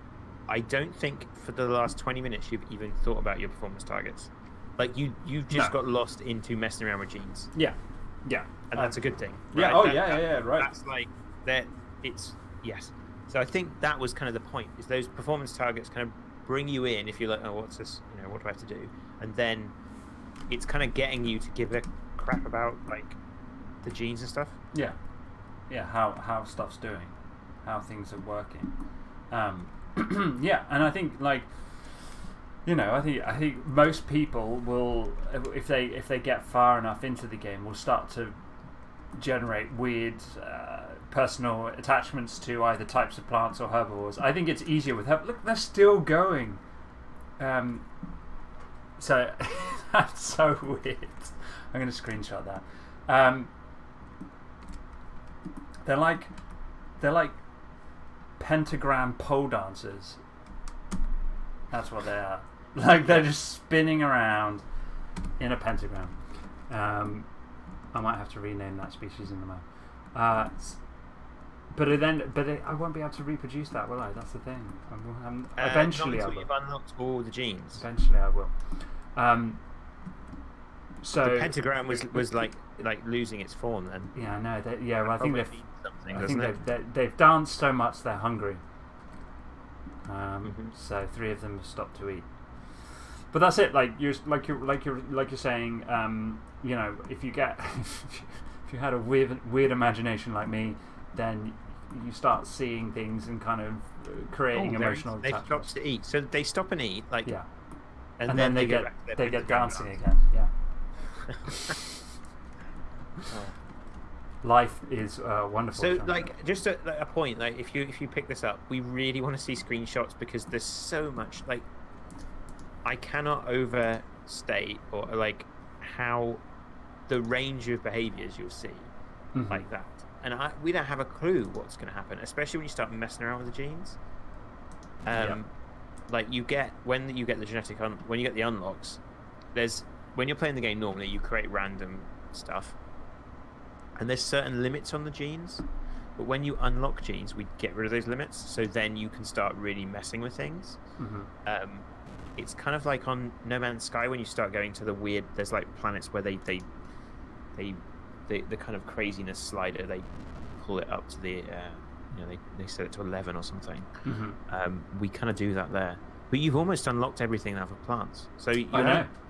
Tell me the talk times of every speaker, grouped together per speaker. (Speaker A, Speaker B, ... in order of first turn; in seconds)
Speaker A: 0.5-7.5, 8.7-19.7, 20.5-23.2, 23.8-24.6, 75.6-77.8, 81.2-84.1, 85.0-86.6, 90.4-90.7, 104.5-107.3, 108.2-110.0, 111.3-111.7, 113.3-113.5, 115.7-121.7, 122.8-126.4, 127.1-128.9, 129.5-134.0, 135.1-135.5, 136.1-139.0, 139.5-142.8, 144.0-145.6, 146.2-150.8, 151.4-151.8, 152.4-156.7, 157.6-163.9, 164.5-169.1
Speaker B: 5.5-5.8, 7.5-9.0, 9.5-10.7, 25.7-28.7, 29.3-38.4, 39.2-46.6, 47.4-47.9, 49.0-53.5, 55.8-56.3, 57.0-57.4, 58.4-60.2, 61.7-64.6, 65.4-67.3, 67.9-70.8, 71.7-76.5, 77.7-78.5, 79.1-79.6, 81.0-82.4, 84.1-85.6, 86.1-88.6, 90.0-92.2, 92.8-105.7, 108.2-110.5, 111.4-111.8, 114.4-116.3, 129.3-129.6, 135.1-135.4, 151.0-151.3, 164.0-164.4, 168.7-169.1